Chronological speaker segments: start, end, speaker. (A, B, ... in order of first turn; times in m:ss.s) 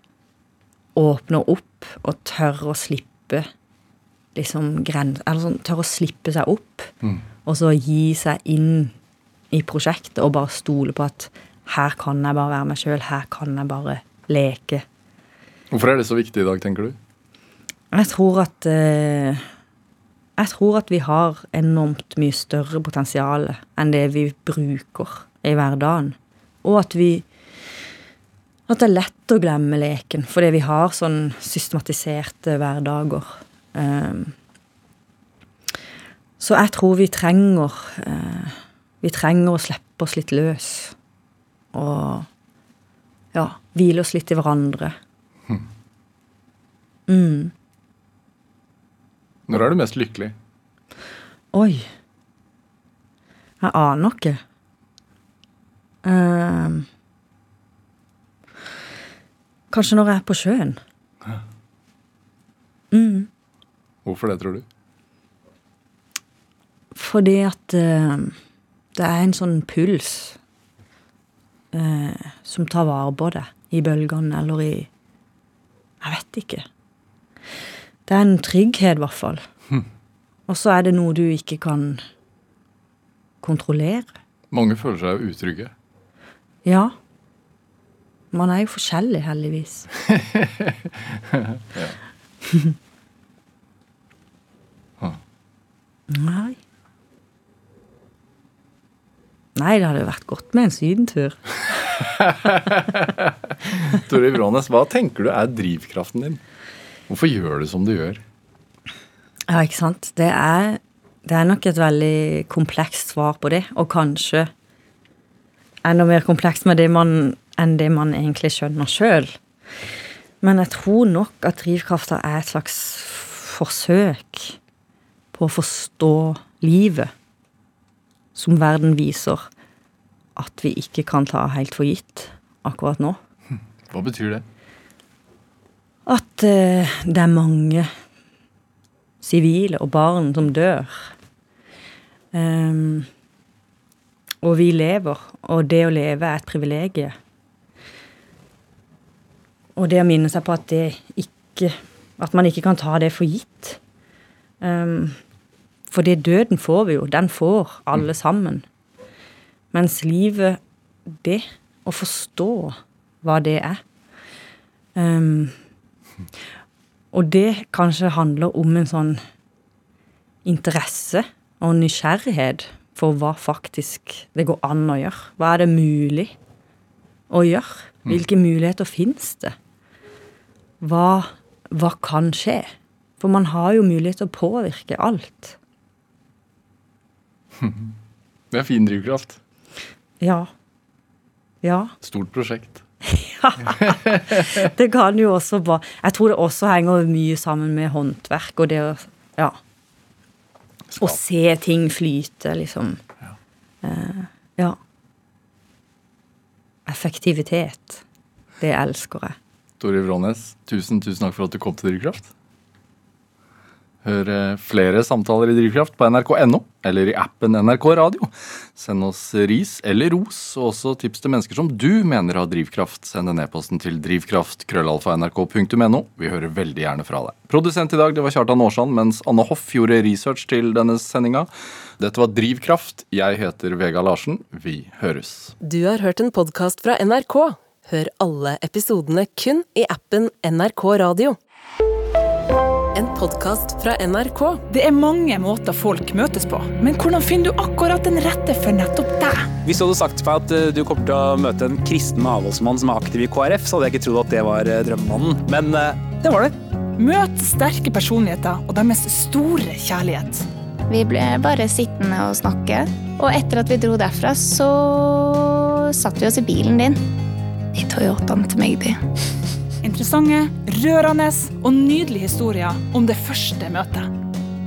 0:01.0-0:03.5 A
0:04.4-0:06.9 A
0:07.4-0:08.9 A
0:09.5-0:14.8 A
0:15.7-0:17.0 B
0:17.9-0:19.5 A
0:20.4-0:27.3 A
0:28.7-0:34.4 A
0:36.4-0:41.0 A
0:41.7-0:42.3 A
0:43.3-0:45.0 A
0:47.1-0:47.5 A
0:49.5-0:50.4 B
0:51.5-0:51.9 A
0:53.6-0:54.4 A
0:56.0-0:56.9 A
0:59.7-1:00.8 A
1:02.9-1:03.3 A
1:04.0-1:04.6 B
1:07.0-1:08.4 A
1:09.0-1:10.4 A
1:11.7-1:14.9 A
1:16.0-1:16.7 A
1:18.1-1:19.4 A
1:20.5-1:22.0 A
1:23.4-1:24.1 A
1:24.5-1:25.7 B
1:26.6-1:27.0 A
1:28.3-1:29.9 A
1:30.1-1:32.0 B
1:36.1-1:36.6 A
1:39.6-1:41.4 A
1:42.0-1:46.4 B
1:47.1-1:48.2 B
1:49.5-1:54.5 A
1:55.8-1:59.4 A
2:00.4-2:04.6 A
2:05.3-2:07.1 A
2:08.4-2:09.5 A
2:10.4-2:13.2 A
2:13.9-2:14.4 B
2:16.1-2:17.9 A
2:19.2-2:21.1 A
2:22.3-2:23.1 A
2:24.4-2:27.2 A
2:29.8-2:33.8 A
2:34.6-2:35.2 A
2:35.9-2:38.6 A
2:39.7-2:40.6 A
2:41.1-2:43.8 A
2:45.0-2:45.6 A
2:47.1-2:49.2 A
2:50.4-2:56.3 A
2:57.3-2:59.5 A
3:00.8-3:05.6 A
3:07.6-3:07.9 B
3:08.5-3:09.4 B
3:10.2-3:10.5 A
3:11.6-3:11.9 A
3:12.0-3:12.8 B
3:13.0-3:19.6 A
3:13.6-3:14.6 B
3:20.9-3:21.2 B
3:21.0-3:23.0 A
3:23.8-3:24.8 A
3:26.9-3:28.0 A
3:28.6-3:29.4 A
3:29.8-3:32.3 B
3:34.0-3:55.6 B
3:55.6-4:01.4 C
4:03.0-4:04.6 C
4:04.7-4:09.6 D
4:09.6-4:16.5 E
4:17.0-4:20.5 D
4:20.9-4:27.0 F
4:27.8-4:29.0 F
4:29.8-4:34.1 D